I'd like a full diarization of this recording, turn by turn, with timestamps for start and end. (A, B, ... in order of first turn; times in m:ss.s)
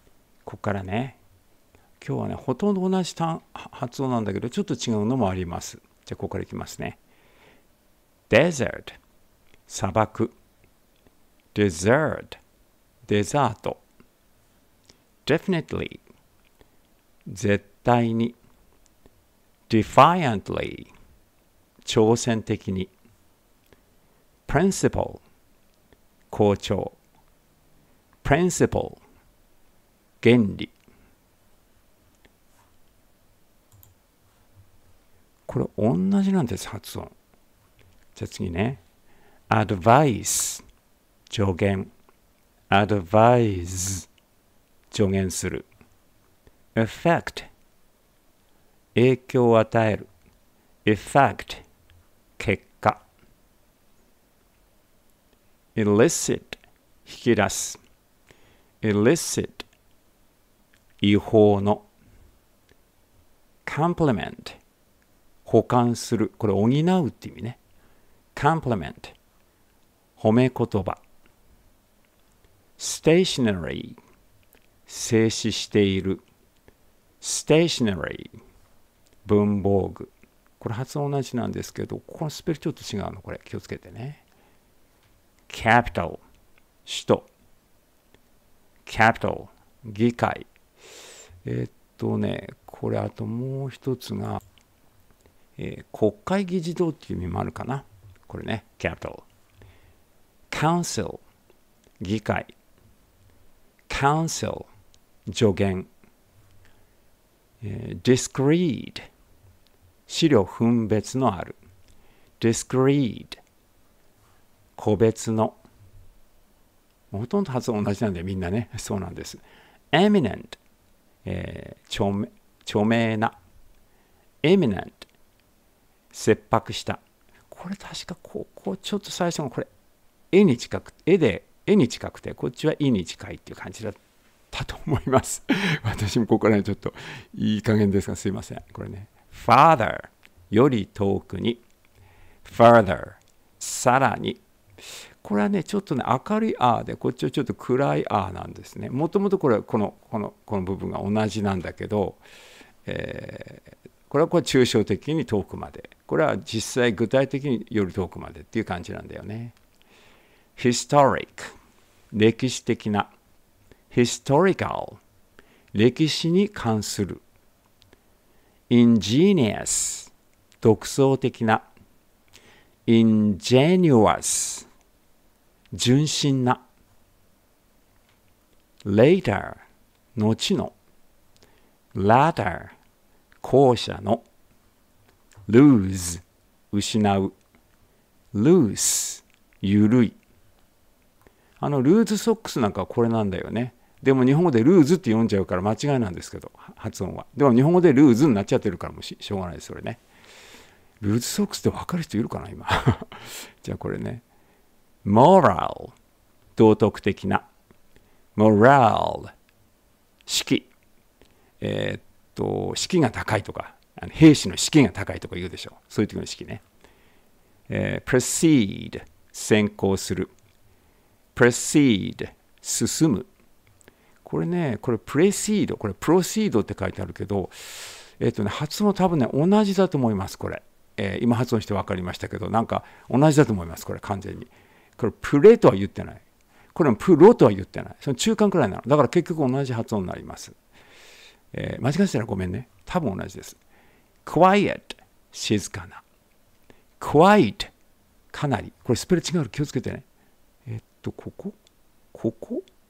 0:00.4-0:01.2 A
0:02.0-0:07.0 A
0:08.3-0:09.0 A
0:09.7-0:10.3 A
0:11.5-0:12.4 A
0:13.1-0:13.8 A
0:15.2-0:16.0 A
0:17.2-0:18.4 A
0:19.7-0:20.9 A
0:21.8-0:22.9 A
0:24.5-0:25.2 A
0:26.3-0:27.0 A
0:28.2-0:29.0 A
0:30.2-0:30.7 A
0:35.5-0:37.1 A
0:38.2-0:38.8 A
0:39.5-0:40.6 A
0:41.3-0:41.9 A
0:42.7-0:44.1 A
0:44.9-0:45.7 A
0:46.8-0:47.5 A
0:49.0-0:50.1 A
0:50.8-0:51.6 A
0:52.4-0:53.0 A
0:55.8-0:57.8 A
0:58.8-0:59.7 A
1:01.0-1:01.8 A
1:03.6-1:04.6 A
1:05.4-1:07.6 A
1:08.3-1:09.1 A
1:10.2-1:11.0 A
1:12.8-1:14.0 A
1:14.9-1:16.2 A
1:17.2-1:18.4 A
1:19.2-1:24.2 A
1:25.5-1:26.2 A
1:26.8-1:27.3 A
1:28.8-1:30.5 A
1:31.4-1:34.4 A
1:35.6-1:39.2 A
1:40.5-1:41.2 A
1:42.0-1:42.5 A
1:43.9-1:44.7 A
1:45.3-1:45.9 A
1:47.6-1:49.0 A
1:50.1-1:51.6 A
1:52.4-1:53.4 A
1:54.8-1:55.6 A
1:57.1-2:00.6 A
2:01.2-2:03.4 A
2:04.4-2:05.0 A
2:06.1-2:09.7 A
2:10.3-2:14.0 A
2:14.5-2:21.6 A
2:22.4-2:24.4 A
2:25.2-2:32.2 A
2:32.9-2:39.5 A
2:40.6-2:41.5 A
2:42.1-2:43.1 A
2:43.9-2:45.0 A
2:45.7-2:47.2 A
2:48.7-2:51.7 A
2:52.9-2:54.7 A
2:55.7-2:56.6 A
2:58.8-2:59.6 A
3:00.2-3:00.7 A
3:02.0-3:02.7 A
3:03.4-3:04.2 A
3:05.5-3:07.3 A
3:08.3-3:10.2 A
3:11.6-3:20.0 A
3:21.0-3:24.2 A
3:25.0-3:25.9 A
3:26.6-3:27.5 A
3:28.3-3:29.3 A
3:30.3-3:30.7 A
3:31.6-3:36.6 A
3:37.7-3:40.3 A
3:41.3-3:43.3 A
3:44.2-3:56.2 A
3:56.8-4:00.6 A
4:01.5-4:03.6 A
4:04.2-4:06.0 A
4:07.0-4:07.7 A
4:08.3-4:10.0 A
4:10.7-4:11.6 A
4:12.1-4:12.6 A